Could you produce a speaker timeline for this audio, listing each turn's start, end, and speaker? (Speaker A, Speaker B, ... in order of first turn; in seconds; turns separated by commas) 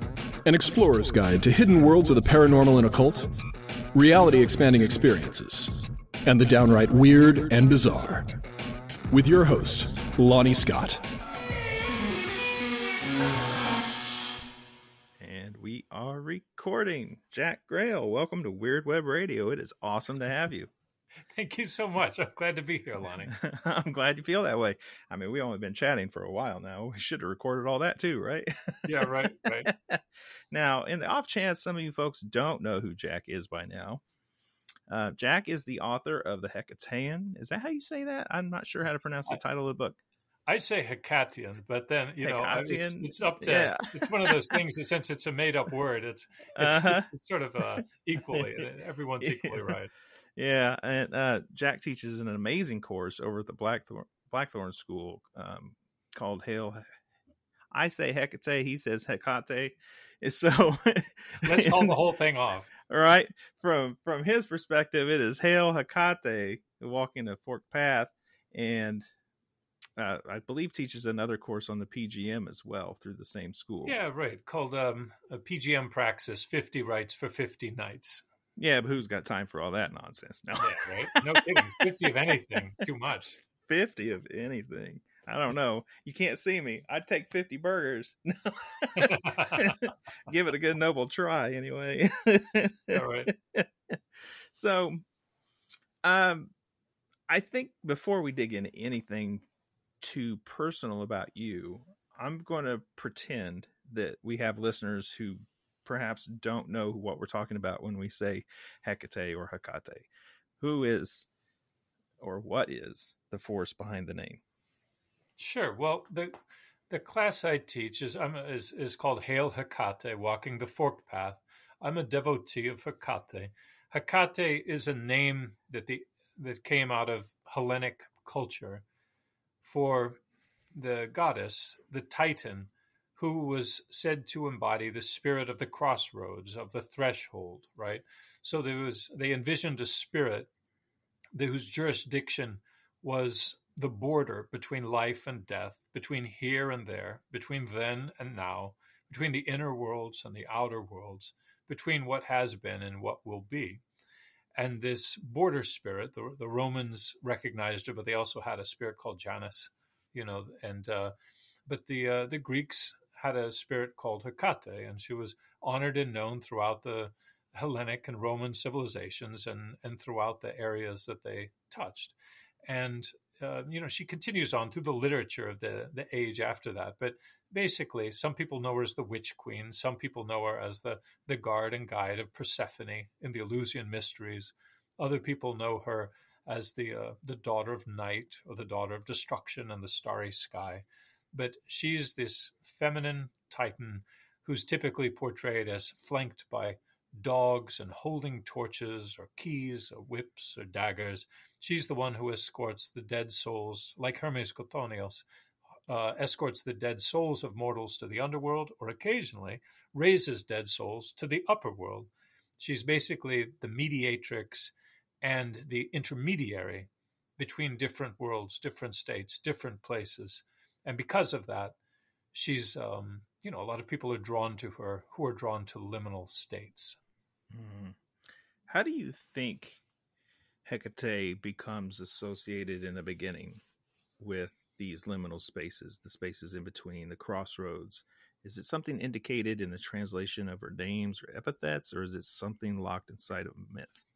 Speaker A: 0.4-3.3, Speaker A: 3.9-8.3, Speaker A: 9.1-11.1, Speaker B: 15.2-20.7, Speaker C: 21.3-23.3, Speaker B: 23.3-34.0, Speaker C: 28.8-29.7, Speaker B: 34.9-40.0, Speaker C: 40.5-49.9, Speaker B: 42.2-44.5, Speaker B: 46.6-47.1, Speaker B: 48.3-48.6, Speaker B: 49.2-49.7, Speaker B: 50.4-56.8, Speaker B: 57.7-62.0, Speaker C: 61.4-62.7, Speaker B: 62.9-69.1, Speaker B: 70.0-74.0, Speaker C: 73.8-78.2, Speaker B: 78.6-81.7, Speaker C: 80.6-83.4, Speaker B: 83.7-94.0, Speaker C: 89.0-89.8, Speaker C: 92.9-93.3, Speaker B: 94.5-95.0, Speaker B: 96.0-96.5, Speaker B: 97.3-99.5, Speaker B: 100.0-110.1, Speaker B: 110.6-111.3, Speaker B: 112.2-114.4, Speaker C: 115.4-116.3, Speaker C: 116.9-128.8, Speaker C: 129.6-130.2, Speaker C: 130.7-140.5, Speaker C: 141.3-153.8, Speaker C: 154.6-161.1, Speaker C: 161.7-172.1, Speaker C: 172.7-205.2, Speaker C: 205.9-221.8, Speaker C: 222.3-227.0, Speaker B: 227.5-227.9, Speaker B: 228.7-229.8, Speaker B: 230.6-233.6, Speaker B: 234.2-244.0